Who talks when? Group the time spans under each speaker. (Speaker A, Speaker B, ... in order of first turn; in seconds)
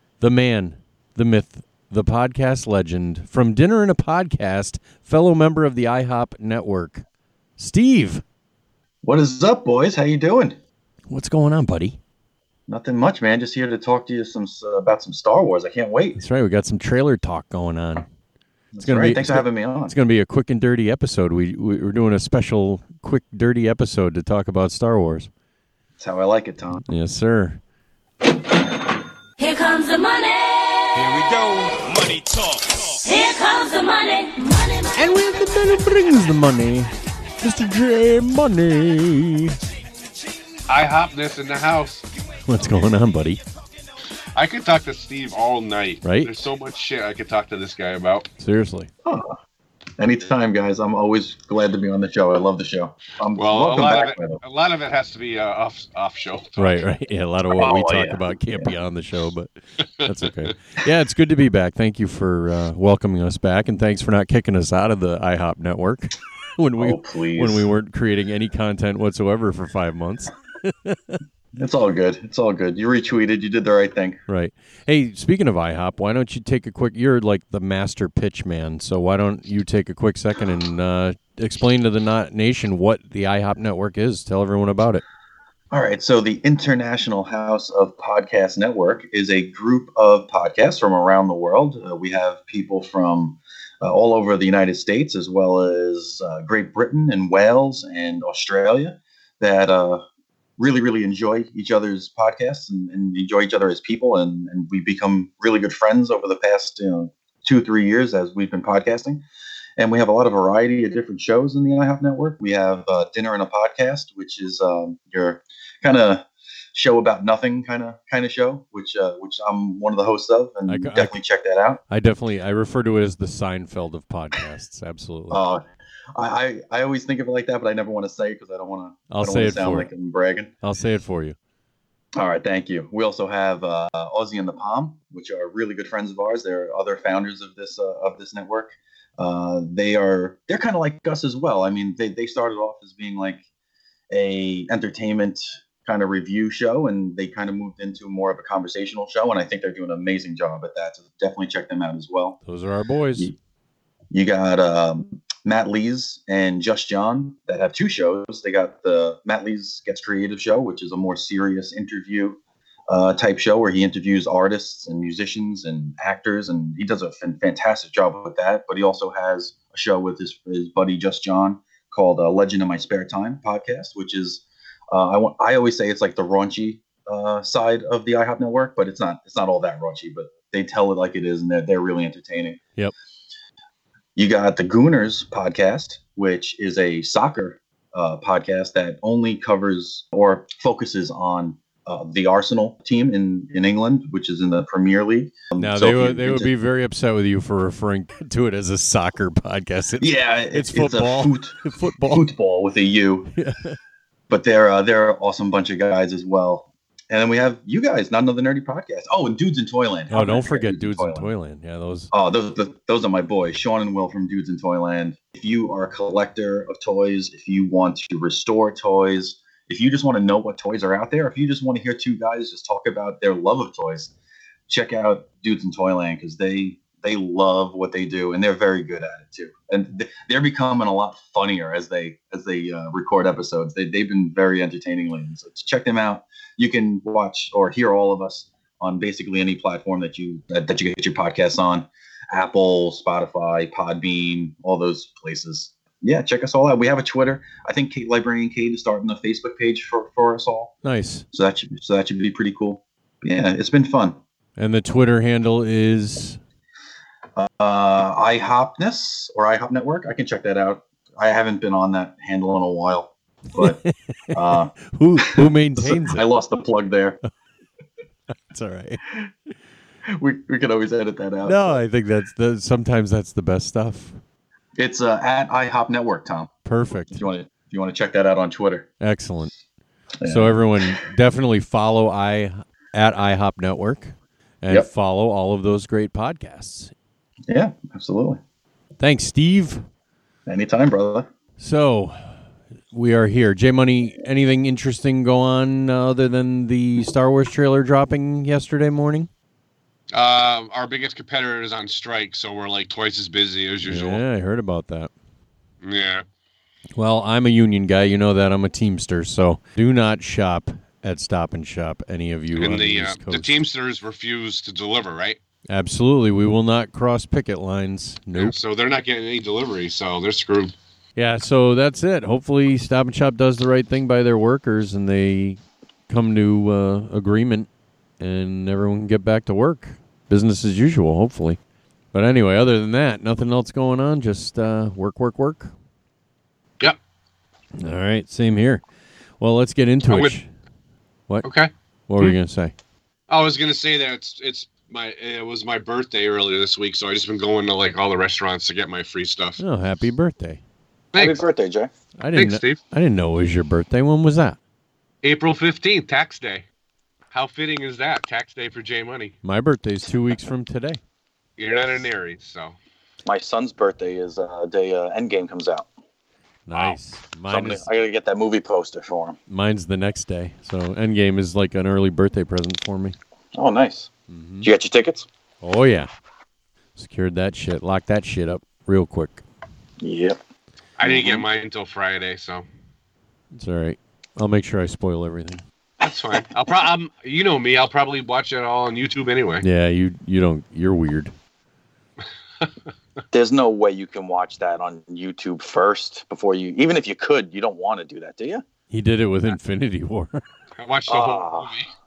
Speaker A: 0.2-7.0, 7.6-8.2, 11.1-12.0, 16.2-18.1, 18.8-25.3, 26.9-27.6, 35.0-39.6, 42.5-43.4, 46.0-46.3, 48.4-48.9, 56.6-59.5, 60.0-71.2, 74.3-85.0, 120.7-121.1, 121.9-125.4, 129.1-129.9, 130.6-131.4, 152.4-153.3, 195.6-202.3, 203.3-203.8, 210.1-212.1, 250.8-251.3, 254.6-256.4, 263.6-266.2, 268.5-269.0, 271.4-274.2, 276.6-277.3, 279.0-279.5, 280.2-286.9, 289.0-289.8, 291.6-292.4, 292.9-299.3, 303.9-305.1, 307.0-313.6, 315.7-318.6, 321.2-327.7, 328.2-331.6, 332.1-335.7, 337.8-338.8, 339.4-340.5, 342.1-342.7, 349.6-350.6, 352.2-354.6, 359.4-361.0, 366.7-367.9, 369.5-373.2, 374.3-374.7, 375.6-376.1, 377.0-379.4, 383.5-385.6, 389.6-391.3, 398.9-400.4
Speaker B: 9.0-10.6, 12.7-16.2, 18.7-20.0, 26.0-26.9, 49.0-49.4, 50.0-54.4, 57.5-58.7, 66.8-67.7, 71.5-74.2, 85.7-100.0, 100.6-109.2, 109.8-121.8, 125.3-125.6, 126.2-130.5, 132.2-143.4, 144.1-152.4, 154.1-182.6, 184.2-196.5, 200.0-203.3, 204.3-211.3, 212.1-224.1, 224.7-250.7, 251.3-254.2, 257.4-263.8, 264.3-267.2, 270.1-271.8, 274.8-276.5, 277.1-278.9, 280.2-281.0, 287.5-288.4, 290.5-291.3, 351.1-351.9, 363.2-365.9, 367.5-369.4, 373.6-374.1, 374.6-375.3, 380.0-380.4, 381.0-381.4, 386.0-386.4, 393.3-398.6, 401.1-401.7
Speaker C: 29.4-31.2, 33.0-35.1
Speaker D: 40.7-42.1, 44.4-48.3, 53.4-56.8, 300.1-304.2, 305.8-306.2, 312.6-315.4, 318.3-320.7, 340.1-340.4, 341.4-342.4, 343.3-349.6, 351.1-351.4, 352.3-352.8, 355.2-356.6, 357.3-359.4, 361.6-362.8, 381.0-382.6, 386.0-389.6, 400.8-401.9